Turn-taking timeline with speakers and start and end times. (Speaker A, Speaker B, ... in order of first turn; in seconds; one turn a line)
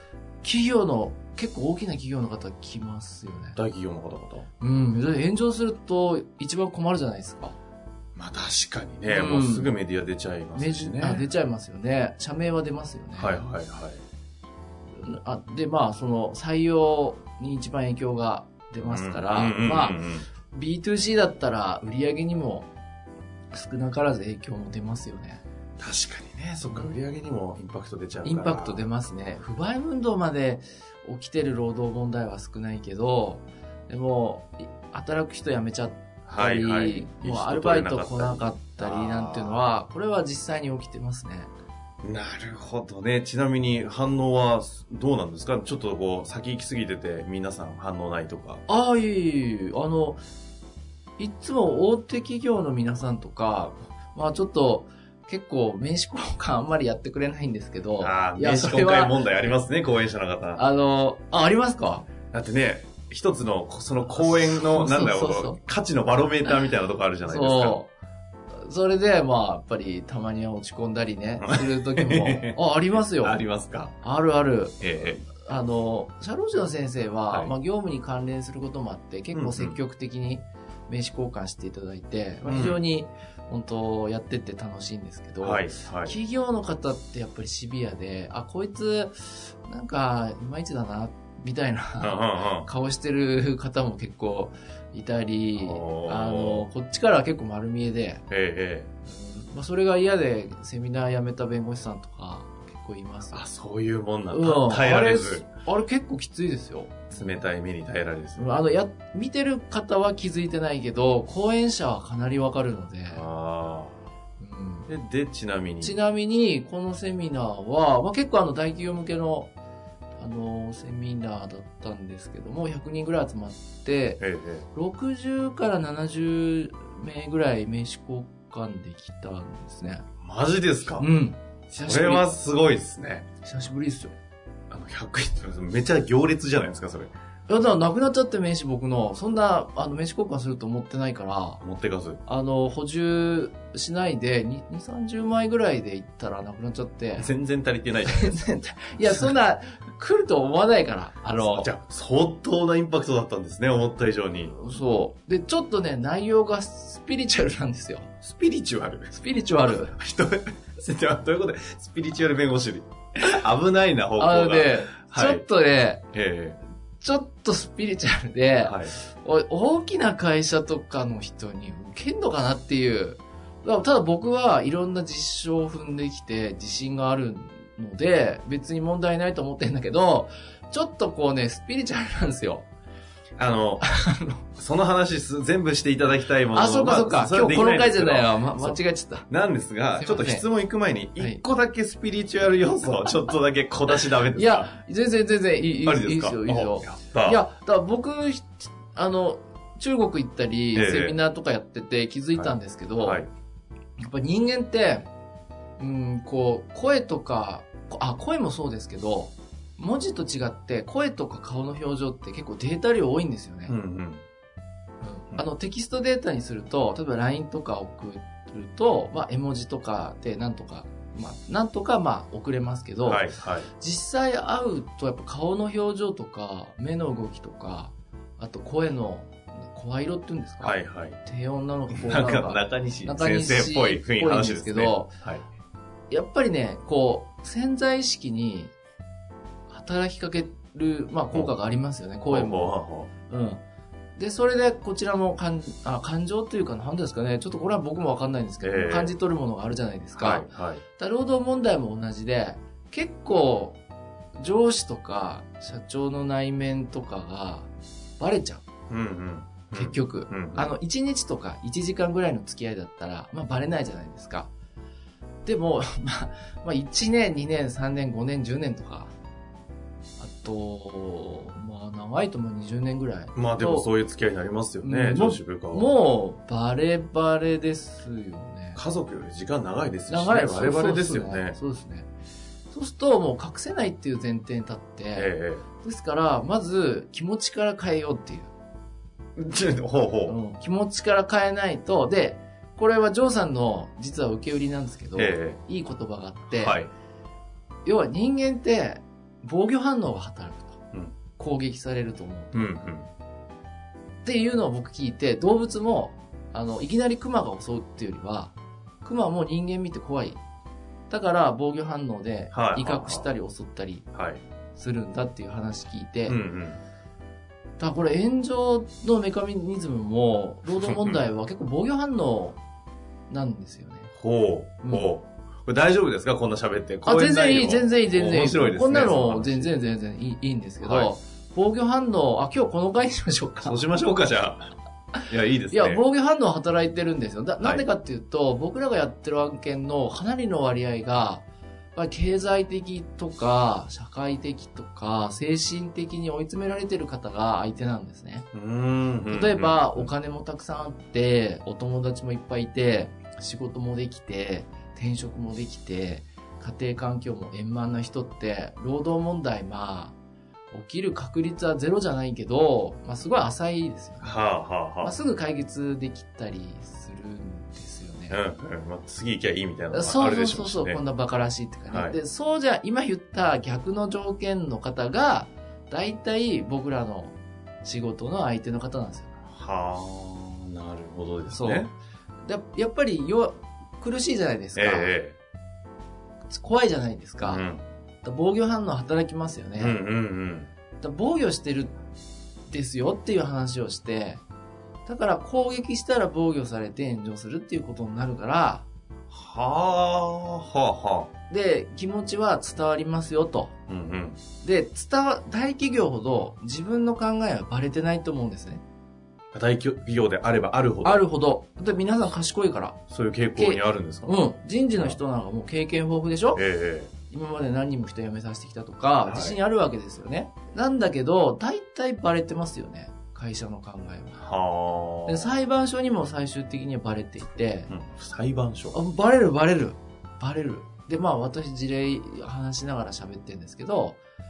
Speaker A: 0.4-3.6
Speaker B: 3.5-4.5
Speaker A: 4.6-7.6
Speaker B: 8.2-11.2
Speaker A: 9.0-9.7
Speaker A: 10.5-13.6
Speaker B: 13.2-14.0
Speaker A: 14.9-20.0
Speaker B: 18.8-20.2
Speaker A: 20.5-22.7
Speaker A: 23.5-25.4
Speaker B: 25.8-28.8
Speaker A: 28.2-41.5
Speaker B: 36.2-39.6
Speaker B: 42.0-48.6
Speaker A: 48.7-50.2
Speaker A: 51.2-59.2
Speaker B: 58.0-60.6
Speaker A: 60.5-62.1
Speaker B: 62.3-67.8
Speaker A: 64.1-65.6
Speaker A: 67.2-67.9
Speaker A: 68.6-73.4
Speaker B: 71.4-74.0
Speaker A: 74.0-98.2
Speaker B: 74.8-75.3
Speaker B: 79.3-79.8
Speaker B: 82.4-82.8
Speaker B: 85.4-86.2
Speaker B: 92.0-92.7
Speaker B: 95.5-96.7
Speaker B: 98.3-98.9
Speaker A: 99.0-103.4
Speaker B: 103.3-105.4
Speaker A: 104.3-107.1
Speaker B: 107.1-108.5
Speaker A: 108.4-113.2
Speaker B: 113.1-114.0
Speaker A: 114.4-114.9
Speaker B: 114.9-116.0
Speaker A: 115.8-119.5
Speaker A: 120.2-124.2
Speaker B: 124.2-124.7
Speaker A: 124.7-130.0
Speaker B: 130.2-131.1
Speaker A: 131.0-132.3
Speaker B: 131.7-133.3
Speaker A: 133.4-134.1
Speaker B: 134.7-137.1
Speaker A: 137.5-141.6
Speaker B: 141.6-142.2
Speaker A: 142.2-147.3
Speaker B: 147.2-148.5
Speaker A: 148.1-151.7
Speaker B: 151.3-154.5
Speaker A: 154.5-158.1
Speaker B: 158.2-159.2
Speaker A: 159.1-160.0
Speaker B: 159.7-165.4
Speaker A: 164.2-166.0
Speaker B: 166.1-166.6
Speaker A: 167.0-182.7
Speaker B: 168.6-168.9
Speaker B: 183.4-183.8
Speaker A: 183.8-184.4
Speaker B: 184.5-194.7
Speaker A: 186.5-189.3
Speaker A: 190.0-190.4
Speaker A: 191.2-191.4
Speaker A: 194.3-203.2
Speaker B: 195.8-197.4
Speaker B: 200.7-201.2
Speaker B: 202.3-203.3
Speaker A: 204.0-205.1
Speaker A: 205.8-213.8
Speaker B: 213.7-214.2
Speaker A: 215.0-223.2
Speaker B: 223.0-223.7
Speaker A: 223.8-235.1
Speaker B: 230.6-231.2
Speaker B: 231.9-235.4
Speaker A: 236.1-238.7
Speaker A: 239.7-243.6
Speaker B: 242.3-243.1
Speaker A: 244.2-253.8
Speaker B: 248.6-249.1
Speaker B: 250.2-250.8
Speaker A: 254.3-258.6
Speaker B: 258.9-260.7
Speaker A: 259.7-264.5
Speaker A: 265.4-269.1
Speaker A: 270.2-273.9
Speaker B: 273.3-275.9
Speaker A: 274.8-278.8
Speaker B: 278.7-281.6
Speaker A: 280.1-282.1
Speaker A: 282.7-288.5
Speaker B: 285.1-285.6
Speaker B: 289.4-290.4
Speaker A: 290.3-296.8
Speaker B: 295.1-295.6
Speaker B: 296.5-296.9
Speaker A: 297.8-300.8
Speaker A: 301.4-302.7
Speaker B: 302.5-303.1
Speaker A: 304.2-310.4
Speaker A: 311.1-314.1
Speaker B: 312.5-313.3
Speaker B: 314.1-314.4
Speaker A: 314.7-316.4
Speaker B: 316.3-316.8
Speaker A: 317.8-322.6
Speaker B: 320.7-321.2
Speaker A: 323.3-324.1
Speaker B: 324.1-329.7
Speaker A: 324.8-325.1
Speaker A: 327.1-333.8
Speaker B: 330.8-331.1
Speaker B: 333.6-334.7
Speaker B: 335.3-336.0
Speaker A: 335.7-341.4
Speaker B: 337.6-337.9
Speaker A: 341.9-348.5
Speaker B: 348.5-350.1
Speaker A: 349.3-360.1
Speaker A: 360.7-364.4
Speaker B: 364.2-365.1
Speaker A: 365.0-368.4
Speaker B: 368.3-371.0
Speaker A: 369.9-379.4
Speaker B: 371.9-372.2
Speaker B: 379.5-381.9
Speaker A: 381.5-381.9
Speaker A: 382.4-385.2
Speaker B: 384.8-385.4
Speaker A: 386.5-387.6
Speaker B: 387.4-387.8
Speaker A: 388.2-390.0
Speaker B: 389.8-390.7
Speaker A: 391.0-392.0
Speaker A: 392.7-394.4
Speaker A: 395.1-398.9
Speaker B: 399.3-401.3
Speaker A: 401.5-403.7
Speaker B: 403.9-404.4
Speaker A: 404.6-408.8
Speaker B: 409.5-411.2
Speaker A: 411.0-413.0
Speaker B: 413.1-414.4
Speaker A: 413.5-416.6
Speaker B: 416.5-417.1
Speaker A: 417.3-424.4
Speaker B: 419.2-419.6
Speaker B: 424.4-425.5
Speaker A: 425.2-427.9
Speaker B: 427.9-429.0
Speaker A: 428.9-434.2